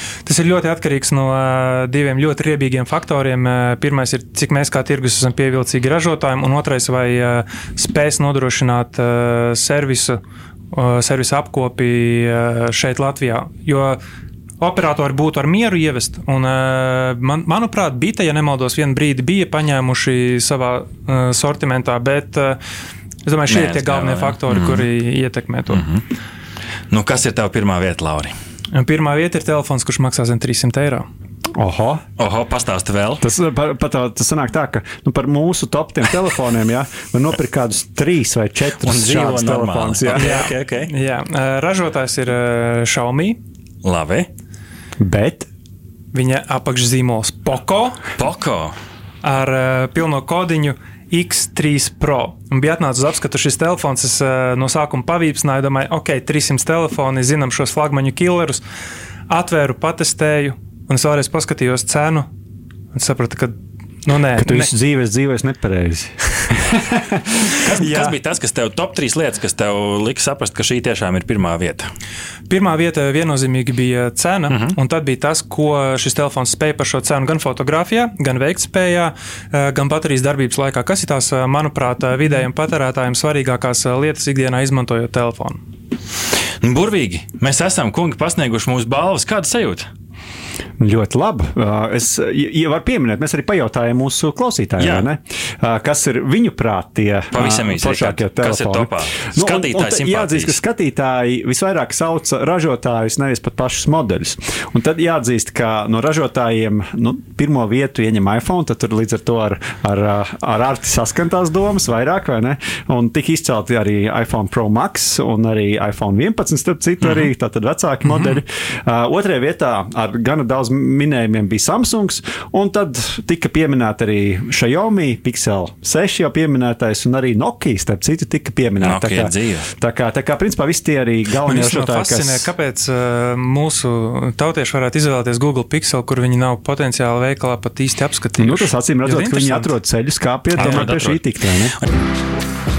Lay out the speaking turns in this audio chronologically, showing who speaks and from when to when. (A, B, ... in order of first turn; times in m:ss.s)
0:00.3-0:10.2 A
0:10.7-0:14.0 A
0:14.6-0:22.6 A
0:23.2-0:25.8 A
0:23.5-0:24.9 B
0:25.7-0:26.0 B
0:26.9-0:28.3 B
0:28.7-0:31.1 A
0:31.6-0:32.0 C
0:32.2-0:33.2 B
0:33.2-0:40.3 C
0:38.8-0:40.9 B
0:40.2-0:43.4 A
0:43.8-0:44.3 B
0:45.0-0:45.5 C
0:46.1-0:48.0 A
0:48.2-0:48.7 B
0:49.2-0:58.6 A
0:59.3-1:02.3 A
1:02.9-1:04.7 A
1:04.4-1:07.4 C
1:07.6-1:11.9 B
1:07.7-1:08.2 A
1:12.5-1:25.6 A
1:14.5-1:14.8 B
1:26.6-1:29.9 B
1:30.8-2:12.5 C
1:34.8-1:35.1 B
1:37.3-1:40.6 B
2:08.8-2:09.7 B
2:11.4-2:19.7 A
2:18.4-2:21.8 C
2:20.6-2:21.9 B